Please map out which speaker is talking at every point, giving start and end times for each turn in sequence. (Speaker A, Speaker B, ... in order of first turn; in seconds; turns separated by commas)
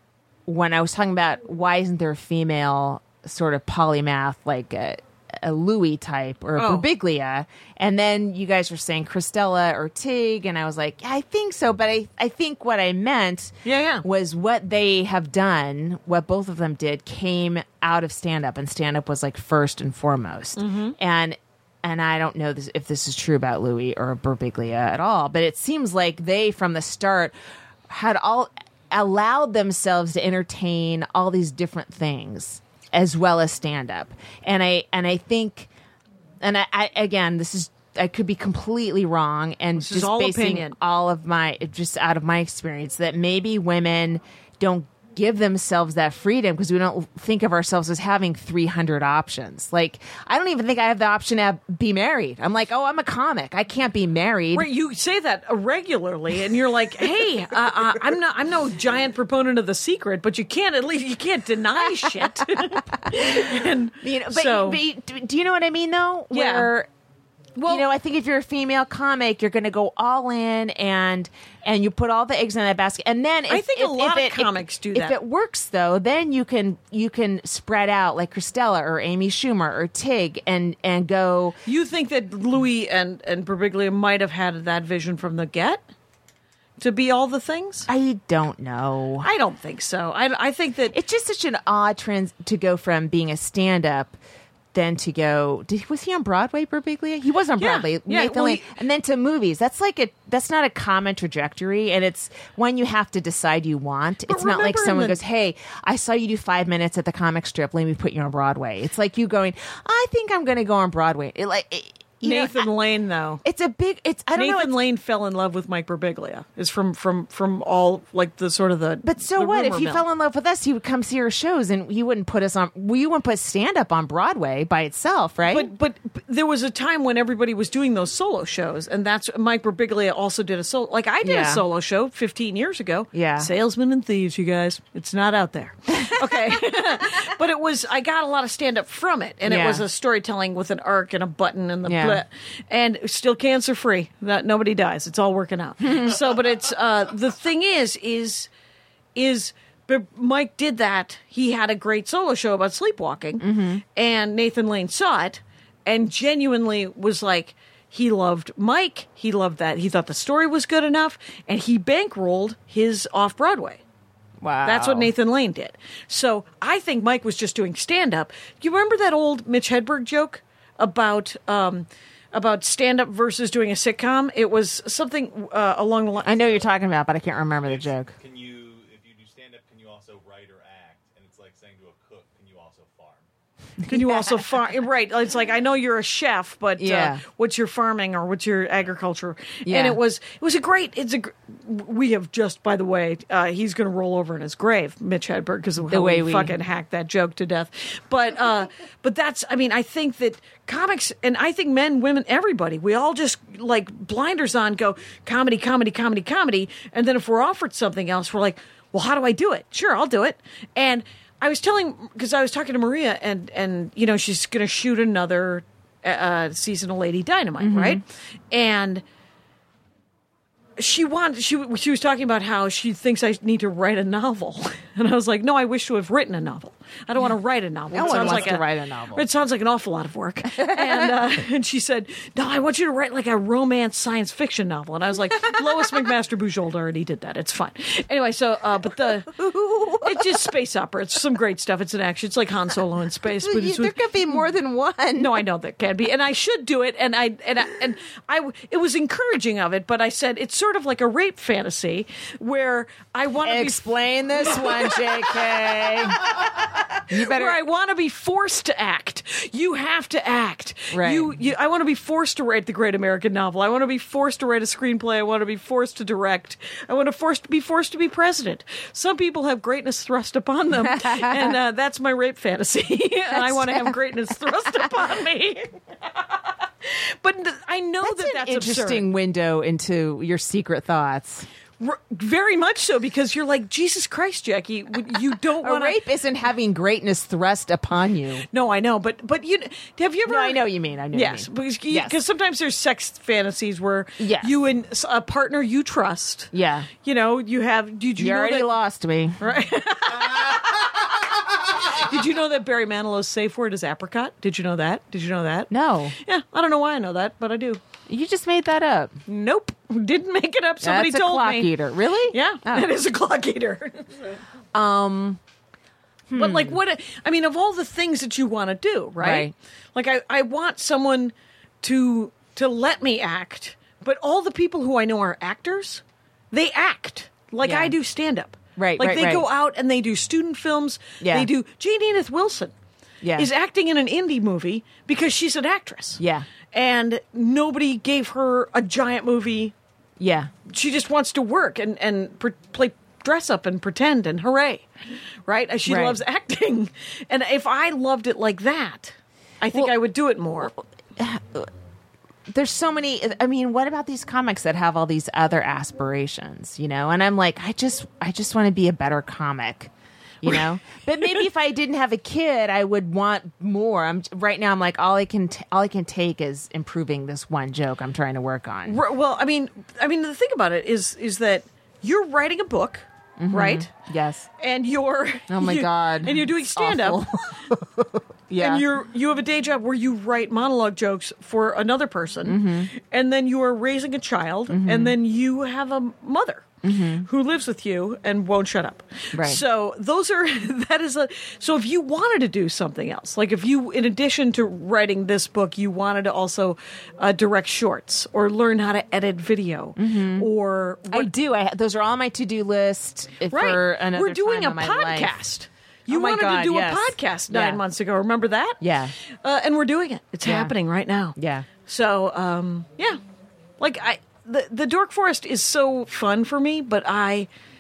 Speaker A: 0.5-27.3, Speaker B: 6.6-6.9, Speaker B: 13.6-14.0, Speaker B: 20.6-20.9, Speaker A: 27.9-35.7, Speaker A: 36.4-54.7, Speaker B: 39.8-40.8, Speaker B: 54.5-64.8, Speaker A: 61.8-66.9, Speaker B: 66.3-66.7, Speaker B: 67.5-67.9, Speaker A: 67.7-81.6, Speaker B: 73.5-75.2, Speaker B: 81.7-85.8, Speaker B: 86.8-87.9, Speaker A: 87.9-89.3, Speaker B: 89.2-91.0, Speaker A: 90.9-94.2, Speaker A: 94.7-112.7, Speaker B: 97.6-98.7, Speaker B: 104.2-105.2, Speaker B: 112.2-113.4, Speaker A: 113.4-114.8, Speaker B: 114.3-120.0, Speaker A: 119.0-125.7, Speaker B: 125.5-148.5, Speaker A: 131.2-131.6, Speaker A: 133.1-133.5, Speaker A: 135.9-136.6, Speaker A: 139.4-139.8, Speaker A: 141.8-142.2, Speaker A: 145.8-146.1, Speaker B: 149.1-163.8, Speaker A: 153.4-153.8, Speaker A: 164.4-165.1, Speaker B: 164.6-176.3, Speaker A: 176.2-178.1, Speaker C: 176.3-176.7, Speaker C: 177.6-183.2, Speaker A: 183.8-184.4, Speaker B: 183.9-219.0, Speaker A: 186.8-187.2, Speaker A: 189.7-190.0, Speaker A: 195.9-196.5, Speaker A: 217.6-218.0, Speaker B: 220.8-239.4, Speaker A: 227.9-229.2, Speaker A: 230.6-231.2, Speaker A: 239.3-240.5, Speaker B: 240.0-244.0, Speaker A: 243.2-245.4, Speaker B: 245.2-255.6, Speaker A: 253.4-256.2, Speaker A: 257.1-257.6, Speaker B: 257.1-279.1, Speaker A: 260.9-261.3, Speaker A: 270.8-271.6, Speaker A: 273.3-274.9, Speaker A: 278.0-281.5, Speaker B: 281.8-286.0, Speaker A: 285.6-288.4, Speaker B: 288.5-296.5, Speaker A: 290.2-292.2, Speaker A: 294.2-294.5, Speaker A: 296.5-296.9, Speaker B: 297.0-298.7, Speaker A: 298.1-299.4, Speaker B: 299.4-301.1, Speaker B: 301.9-307.8, Speaker A: 305.7-306.1, Speaker A: 308.1-309.2, Speaker B: 309.3-311.7, Speaker A: 310.8-312.9, Speaker B: 312.3-314.1, Speaker A: 314.7-315.4, Speaker A: 316.3-316.8, Speaker B: 316.3-332.7, Speaker A: 319.2-319.5, Speaker A: 327.6-327.9, Speaker A: 328.8-329.4, Speaker A: 331.2-331.5, Speaker A: 333.2-333.5, Speaker B: 333.4-339.7, Speaker A: 336.2-336.5, Speaker A: 340.2-340.5, Speaker B: 340.7-344.9, Speaker B: 345.5-350.7, Speaker A: 345.9-346.2, Speaker A: 350.7-351.7, Speaker A: 352.5-359.9, Speaker A: 360.4-369.0, Speaker B: 368.9-373.9, Speaker A: 373.4-374.5, Speaker B: 374.6-377.5, Speaker A: 375.5-378.8, Speaker B: 378.6-386.7, Speaker A: 382.4-382.9, Speaker A: 384.7-385.1, Speaker A: 386.8-387.3, Speaker B: 387.2-401.3, Speaker A: 389.3-389.6, Speaker A: 400.0-400.5, Speaker A: 401.1-405.3, Speaker B: 403.5-408.8, Speaker A: 406.1-407.8, Speaker A: 408.8-409.1, Speaker B: 409.4-411.3, Speaker A: 410.4-410.7, Speaker A: 411.4-411.7, Speaker B: 411.9-413.2, Speaker B: 413.8-417.5